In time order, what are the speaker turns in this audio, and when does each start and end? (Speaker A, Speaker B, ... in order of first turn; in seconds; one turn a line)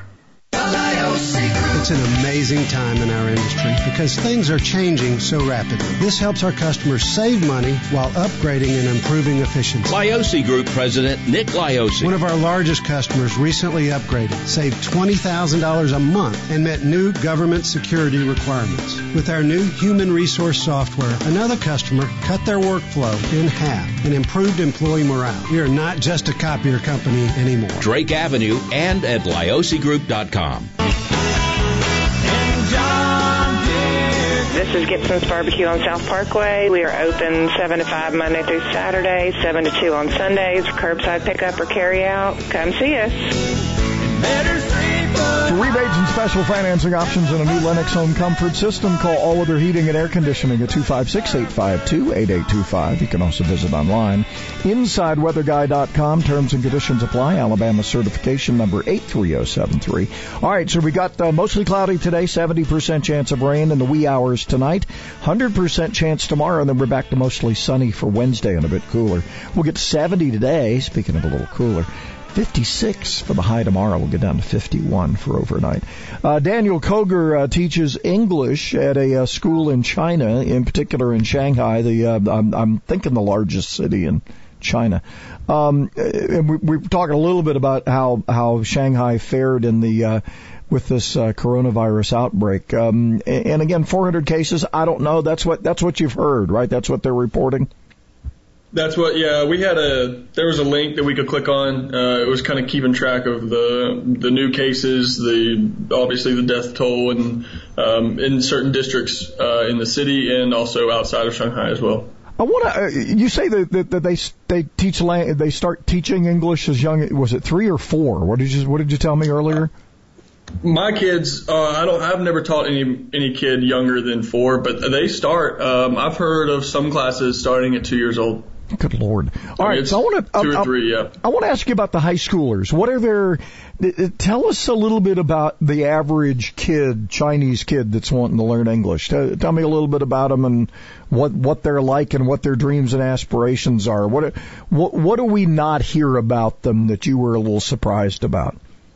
Speaker A: 1.1-10.0
Speaker B: 9.9-12.2
Speaker A: 12.0-27.8
Speaker B: 27.8-30.7
Speaker C: 34.5-43.2
Speaker D: 45.4-97.7
Speaker E: 98.7-112.1
Speaker D: 112.4-119.7
Speaker E: 120.6-128.5
Speaker D: 128.7-148.6
Speaker E: 129.6-131.1